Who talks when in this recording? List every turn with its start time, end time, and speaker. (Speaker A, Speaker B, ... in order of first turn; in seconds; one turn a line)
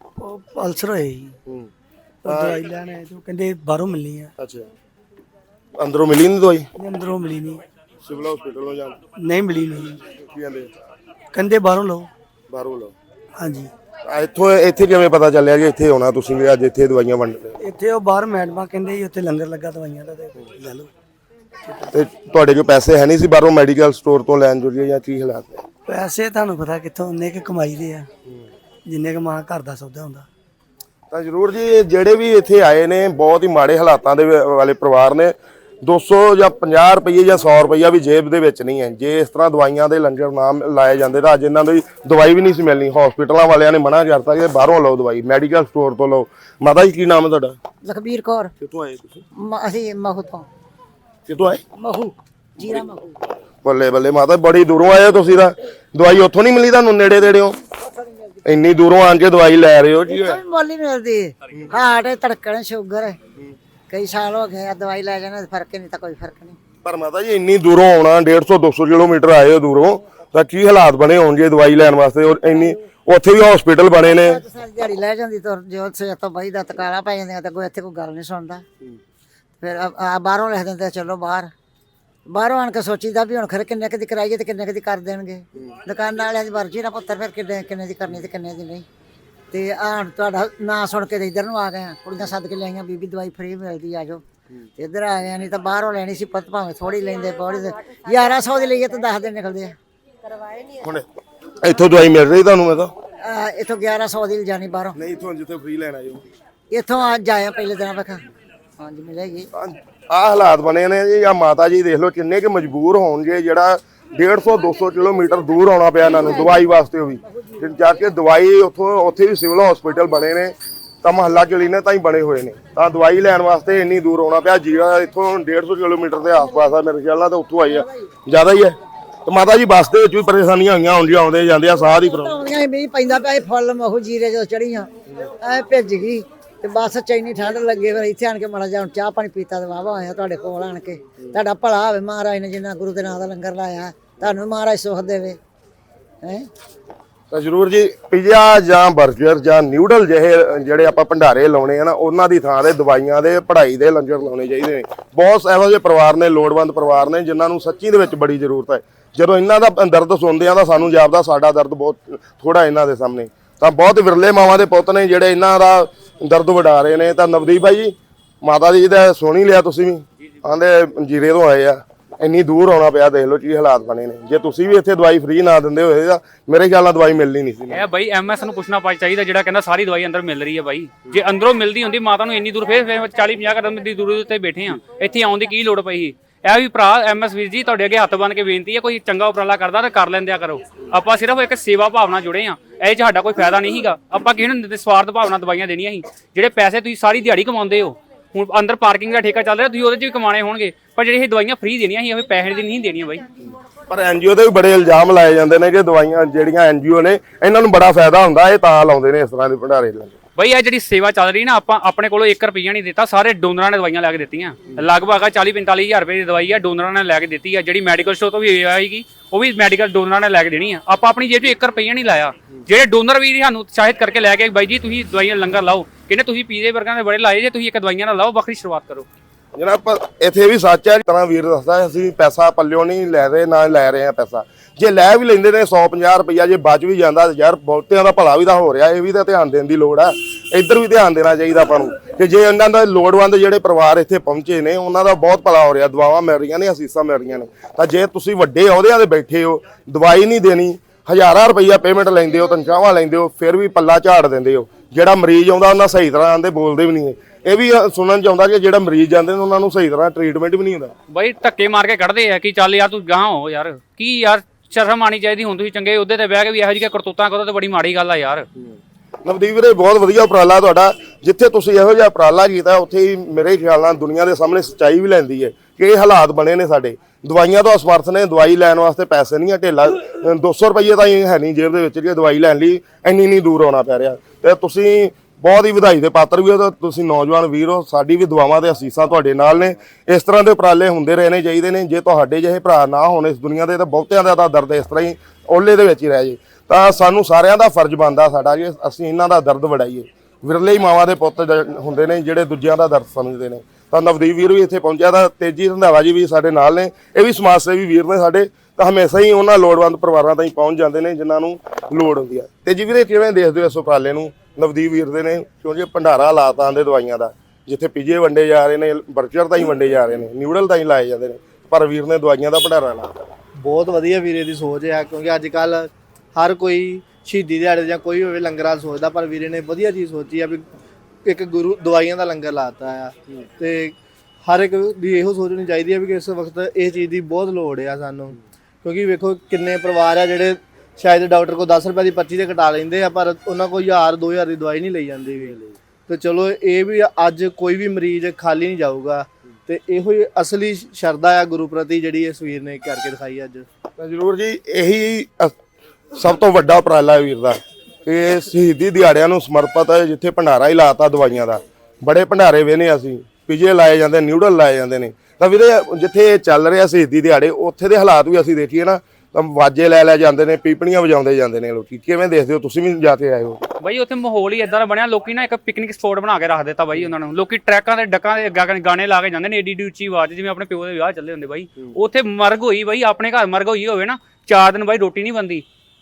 Speaker A: 0.2-1.4
Speaker A: 2.2-4.3
Speaker B: 2.2-2.6
Speaker B: 4.4-4.7
Speaker B: 5.8-6.7
Speaker A: 6.8-7.6
Speaker B: 8.0-9.0
Speaker A: 9.2-10.0
Speaker B: 10.2-10.7
Speaker A: 11.3-12.1
Speaker B: 12.5-12.9
Speaker A: 13.4-13.7
Speaker B: 14.1-17.6
Speaker A: 17.6-20.9
Speaker B: 21.9-25.6
Speaker A: 25.9-28.1
Speaker A: 28.9-30.3
Speaker B: 31.1-47.6
Speaker C: 47.8-48.5
Speaker B: 48.6-49.2
Speaker C: 49.4-50.5
Speaker B: 51.3-51.6
Speaker C: 51.8-53.2
Speaker B: 53.6-57.6
Speaker B: 58.5-60.4
Speaker C: 60.1-63.2
Speaker C: 63.9-66.6
Speaker B: 66.8-74.4
Speaker C: 74.0-78.6
Speaker C: 79.6-81.5
Speaker C: 82.3-88.9
Speaker C: 89.5-94.2
Speaker C: 94.8-99.8
Speaker B: 101.6-102.9
Speaker C: 103.2-105.0
Speaker B: 105.0-106.2
Speaker C: 106.7-108.2
Speaker C: 108.8-109.5
Speaker B: 109.5-132.4
Speaker C: 127.7-128.0
Speaker C: 131.9-145.4
Speaker C: 146.2-146.5
Speaker B: 147.3-177.8
Speaker D: 177.7-203.2
Speaker B: 203.9-210.2
Speaker D: 210.4-229.1
Speaker B: 229.6-260.9
Speaker D: 261.1-268.5
Speaker B: 269.2-323.1
Speaker E: 323.6-325.9
Speaker E: 326.4-330.6
Speaker E: 331.2-333.9
Speaker E: 334.5-345.5
Speaker E: 346.1-353.6
Speaker B: 354.0-355.6
Speaker B: 356.1-373.7
Speaker D: 373.8-385.6